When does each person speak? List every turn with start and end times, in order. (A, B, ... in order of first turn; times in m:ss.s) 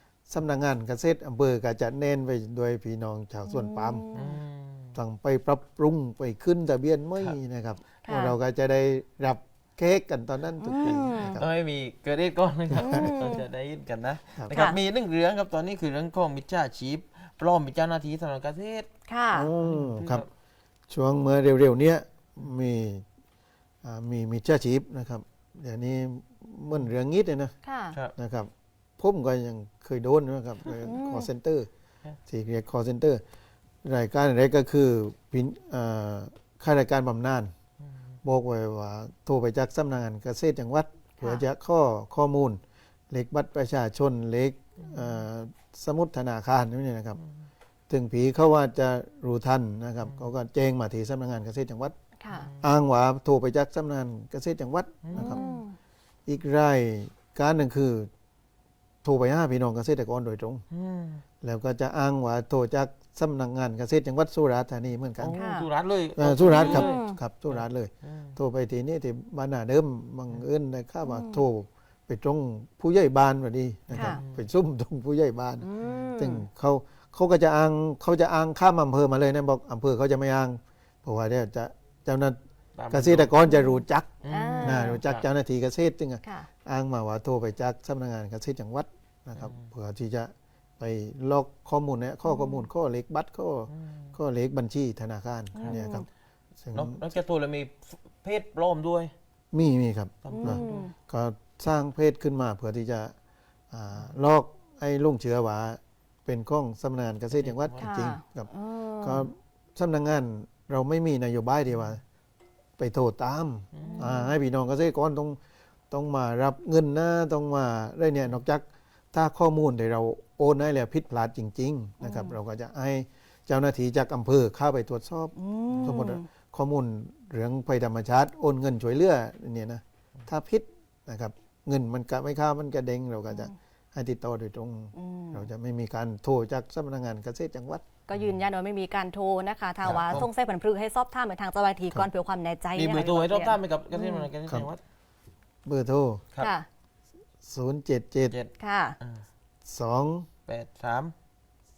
0:00.3-0:04.1 A
0:03.5-0:04.4 B
0:04.1-0:05.0 C
0:05.0-0:11.5 A
0:08.0-0:08.4 B
0:10.6-0:11.4 B
0:10.8-0:18.9 C
0:12.7-0:13.1 A
0:12.8-0:13.4 B
0:14.5-0:14.8 B
0:19.1-0:19.5 B
0:19.3-0:20.2 A
0:19.6-0:20.3 C
0:20.9-0:23.0 A
0:23.8-0:27.5 A
0:27.6-0:28.0 B
0:28.2-0:31.7 A
0:30.7-0:31.3 B
0:32.3-0:33.2 A
0:33.8-0:37.5 A
0:38.2-0:47.2 A
0:47.9-0:52.0 A
0:52.2-0:52.5 B
0:52.3-0:52.7 C
0:52.6-0:55.4 A
0:55.0-0:55.4 C
0:55.1-0:55.8 B
0:56.3-0:58.1 A
0:59.0-1:00.6 A
1:00.7-1:01.2 C
1:01.4-1:05.4 A
1:05.2-1:07.0 C
1:05.4-1:05.7 B
1:06.2-1:22.4 A
1:06.5-1:07.2 B
1:07.5-1:08.4 C
1:11.0-1:11.4 B
1:13.9-1:14.2 B
1:13.9-1:14.4 C
1:15.6-1:16.4 B
1:22.8-1:23.4 C
1:22.9-1:36.1 A
1:24.2-1:25.3 C
1:24.3-1:25.0 B
1:26.2-1:26.5 B
1:29.4-1:29.7 C
1:32.2-1:32.7 B
1:33.7-1:34.2 C
1:35.6-1:36.1 B
1:36.6-1:37.0 A
1:36.7-1:39.1 C
1:39.5-1:43.1 A
1:40.2-1:40.9 C
1:40.3-1:40.9 B
1:43.7-1:48.5 A
1:47.3-1:47.9 C
1:47.8-1:49.3 B
1:49.0-1:52.0 A
1:52.8-1:55.4 A
1:53.7-1:54.1 C
1:53.8-1:54.4 B
1:55.9-2:17.8 A
2:02.0-2:02.4 B
2:05.4-2:06.3 B
2:05.7-2:06.0 C
2:15.0-2:15.5 B
2:18.1-2:24.3 B
2:19.8-2:20.2 A
2:22.8-2:24.8 C
2:25.6-2:26.2 A
2:26.4-2:26.7 B
2:27.4-2:28.4 A
2:28.3-2:29.2 C
2:28.6-2:29.0 B
2:29.6-2:30.3 A
2:30.5-2:31.1 C